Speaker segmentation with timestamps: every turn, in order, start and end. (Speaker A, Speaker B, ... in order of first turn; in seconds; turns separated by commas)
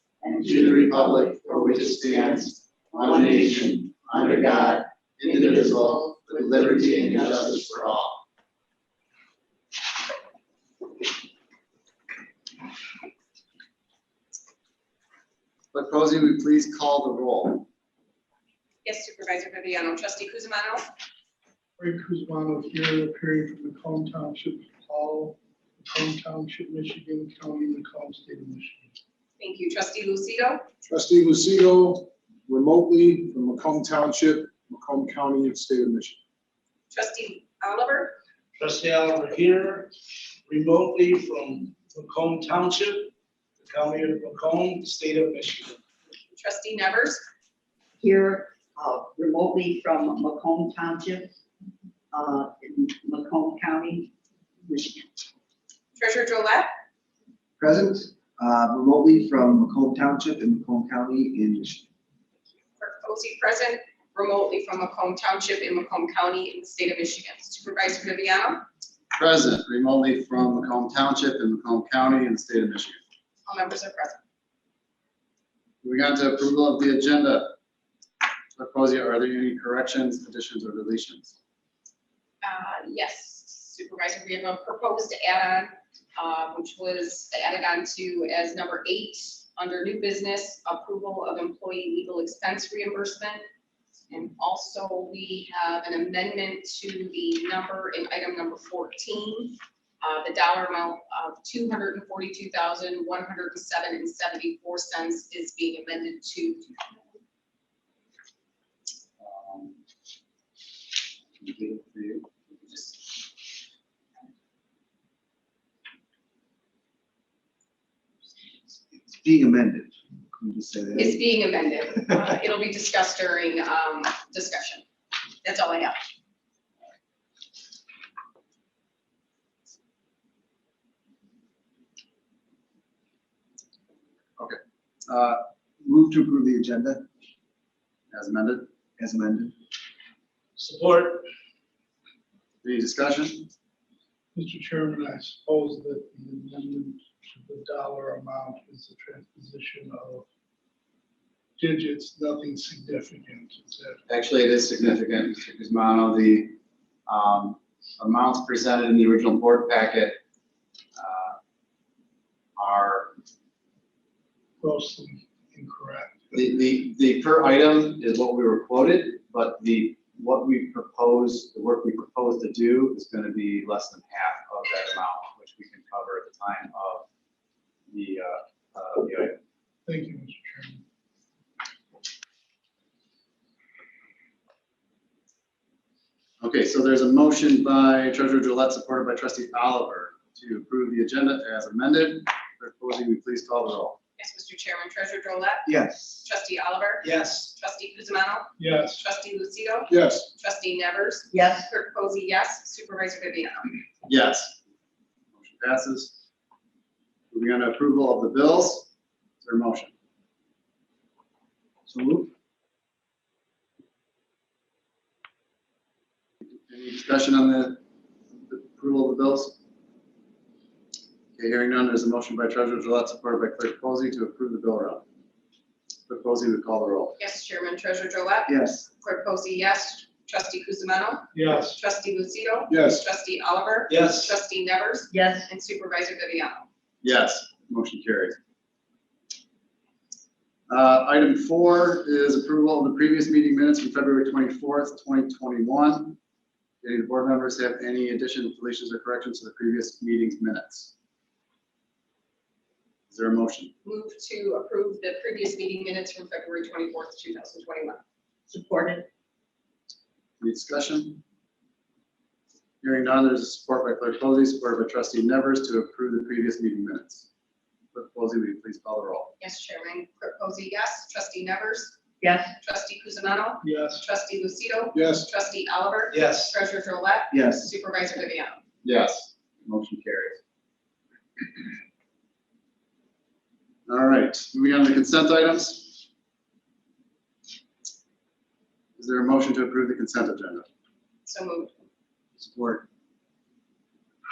Speaker A: 0.2-0.7, Speaker B: 0.3-8.2, Speaker B: 15.7-17.7, Speaker C: 18.9-20.9, Speaker D: 21.8-29.0, Speaker C: 29.4-30.6, Speaker E: 30.8-36.2, Speaker C: 36.9-38.2, Speaker F: 38.6-40.0, Speaker F: 40.5-45.8, Speaker C: 46.3-47.2, Speaker A: 48.0-51.3, Speaker A: 52.1-54.1, Speaker A: 54.6-55.2, Speaker C: 56.0-56.7, Speaker G: 57.6-61.9, Speaker C: 62.8-68.7, Speaker B: 69.2-73.0, Speaker C: 73.5-74.2, Speaker B: 75.8-77.5, Speaker B: 78.6-81.3, Speaker C: 82.4-93.4, Speaker C: 94.1-106.7, Speaker B: 109.2-109.8, Speaker B: 111.4-112.3, Speaker C: 112.7-112.9, Speaker G: 119.1-121.2, Speaker C: 120.9-124.8, Speaker C: 125.4-126.0, Speaker B: 134.4-135.4, Speaker G: 135.8-137.1, Speaker B: 138.1-138.7, Speaker G: 139.0-139.5, Speaker F: 140.6-141.2, Speaker B: 142.6-143.5, Speaker D: 144.3-150.2, Speaker D: 151.6-154.0, Speaker B: 154.1-160.2, Speaker B: 161.0-161.4, Speaker B: 162.6-163.2, Speaker D: 164.6-166.2, Speaker B: 166.3-177.1, Speaker B: 177.9-179.4, Speaker D: 179.9-180.8, Speaker B: 186.4-194.0, Speaker C: 194.2-195.7, Speaker G: 195.7-196.2, Speaker C: 196.2-203.7, Speaker F: 197.0-197.5, Speaker D: 198.6-199.0, Speaker E: 199.9-200.3, Speaker A: 201.3-201.7, Speaker B: 204.1-204.6, Speaker B: 205.3-206.1, Speaker B: 207.3-208.9, Speaker B: 209.4-209.9, Speaker G: 211.9-212.3, Speaker B: 216.5-217.8, Speaker B: 218.5-219.6, Speaker B: 221.4-225.1, Speaker B: 226.1-227.2, Speaker C: 227.2-236.7, Speaker G: 228.5-228.9, Speaker D: 231.3-231.8, Speaker E: 232.7-233.0, Speaker F: 233.9-234.4, Speaker A: 235.1-235.5, Speaker B: 237.0-238.4, Speaker B: 240.7-246.2, Speaker B: 246.8-250.9, Speaker B: 253.1-253.7, Speaker C: 253.8-258.0, Speaker A: 258.5-259.1, Speaker B: 260.4-261.2, Speaker B: 262.8-267.2, Speaker B: 267.9-269.3, Speaker C: 269.4-271.9, Speaker A: 272.2-272.5, Speaker C: 272.6-278.6, Speaker D: 273.6-274.1, Speaker E: 274.9-275.2, Speaker F: 276.1-276.6, Speaker B: 278.8-280.4, Speaker B: 283.9-286.0, Speaker B: 289.0-290.6, Speaker C: 291.2-291.9, Speaker B: 292.5-292.8